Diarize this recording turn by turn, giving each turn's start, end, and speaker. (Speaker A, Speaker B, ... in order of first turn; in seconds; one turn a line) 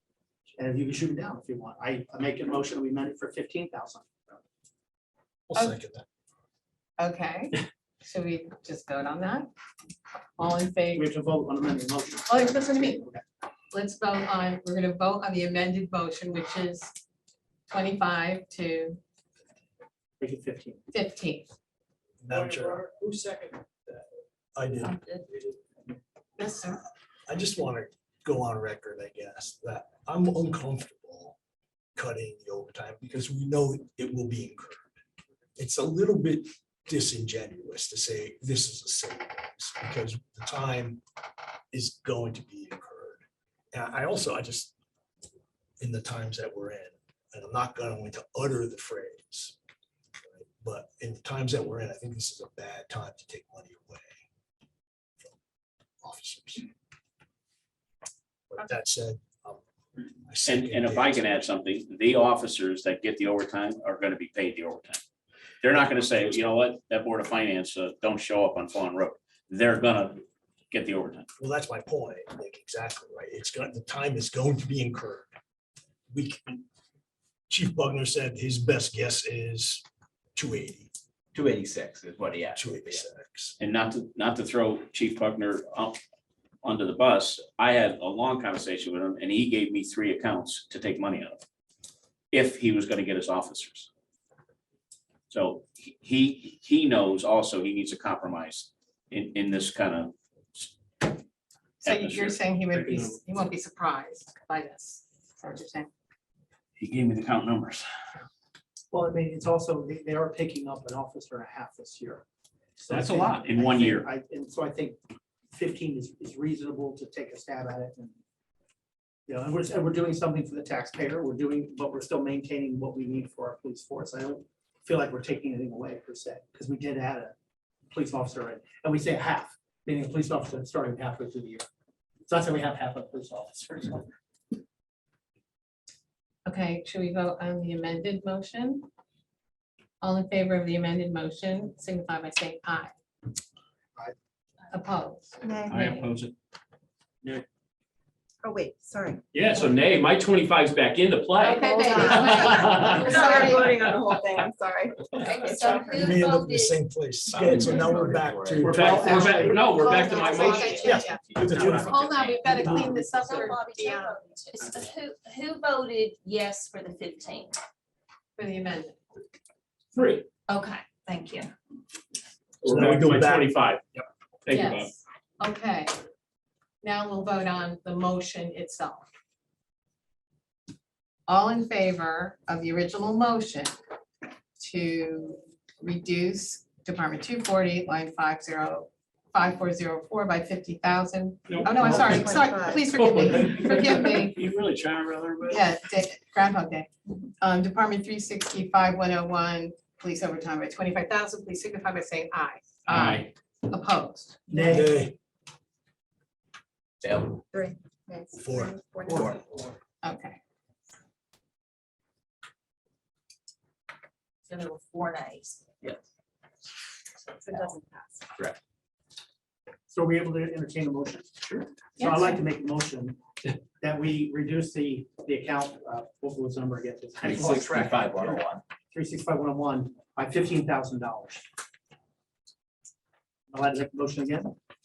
Speaker A: 0.5-4.4
Speaker B: 5.5-6.0
Speaker C: 7.0-9.5
Speaker C: 10.4-11.1
Speaker A: 10.9-13.2
Speaker C: 12.3-13.0
Speaker C: 13.7-16.9
Speaker C: 17.7-19.0
Speaker A: 20.2-20.8
Speaker C: 20.9-21.5
Speaker B: 22.2-22.8
Speaker A: 22.3-24.0
Speaker B: 24.6-24.9
Speaker D: 24.8-25.2
Speaker C: 26.4-26.8
Speaker B: 27.3-31.4
Speaker B: 31.9-34.9
Speaker B: 35.6-41.0
Speaker B: 41.7-44.7
Speaker B: 45.8-49.5
Speaker B: 50.3-54.2
Speaker B: 56.0-56.6
Speaker B: 58.5-59.6
Speaker B: 60.3-61.4
Speaker E: 60.4-65.0
Speaker E: 65.6-71.3
Speaker B: 71.4-75.3
Speaker B: 76.1-76.6
Speaker B: 77.5-79.8
Speaker B: 80.3-80.9
Speaker F: 81.3-83.0
Speaker B: 82.5-83.5
Speaker E: 83.6-86.0
Speaker E: 86.6-91.4
Speaker E: 92.3-93.9
Speaker E: 95.3-101.1
Speaker C: 101.8-105.9
Speaker E: 101.8-102.4
Speaker G: 102.7-103.2
Speaker E: 106.8-107.8
Speaker A: 108.9-112.2
Speaker A: 112.8-115.0
Speaker E: 112.9-114.1
Speaker A: 115.5-118.2
Speaker A: 119.3-127.3
Speaker A: 127.9-131.6
Speaker A: 132.3-134.1
Speaker C: 136.4-138.9
Speaker C: 140.0-142.9
Speaker C: 144.7-145.4
Speaker H: 145.4-145.9
Speaker E: 145.7-145.9
Speaker H: 148.4-149.2
Speaker G: 149.3-154.0
Speaker C: 151.4-153.7
Speaker H: 151.6-155.8
Speaker D: 155.2-156.8
Speaker B: 155.9-158.9
Speaker F: 157.3-159.0
Speaker A: 158.6-159.7
Speaker G: 158.6-160.7
Speaker H: 159.1-159.4
Speaker C: 159.8-164.0
Speaker H: 160.0-161.0
Speaker F: 160.6-162.2
Speaker B: 160.8-162.0
Speaker A: 161.5-161.9
Speaker D: 162.2-162.6
Speaker A: 162.7-163.1
Speaker D: 163.1-167.6
Speaker C: 168.4-169.0
Speaker G: 169.9-170.3
Speaker D: 170.5-171.5
Speaker G: 172.6-173.8
Speaker B: 172.6-174.0
Speaker G: 174.4-174.9
Speaker C: 174.5-175.9
Speaker C: 176.8-179.1
Speaker C: 181.3-183.7
Speaker C: 184.6-194.4
Speaker G: 191.5-194.3
Speaker H: 192.2-192.8
Speaker E: 194.3-195.6
Speaker C: 195.5-196.9
Speaker C: 197.4-203.1
Speaker G: 202.9-203.3
Speaker C: 203.7-204.6
Speaker A: 204.5-204.9
Speaker B: 204.5-205.2
Speaker F: 207.0-207.4
Speaker H: 207.5-209.4
Speaker B: 208.4-208.8
Speaker F: 209.1-209.7
Speaker C: 210.0-210.4
Speaker D: 214.5-215.6
Speaker H: 217.4-218.2
Speaker A: 219.9-221.4
Speaker A: 222.0-228.4
Speaker C: 222.0-222.4
Speaker F: 227.2-228.6
Speaker A: 228.9-231.4
Speaker A: 233.5-234.5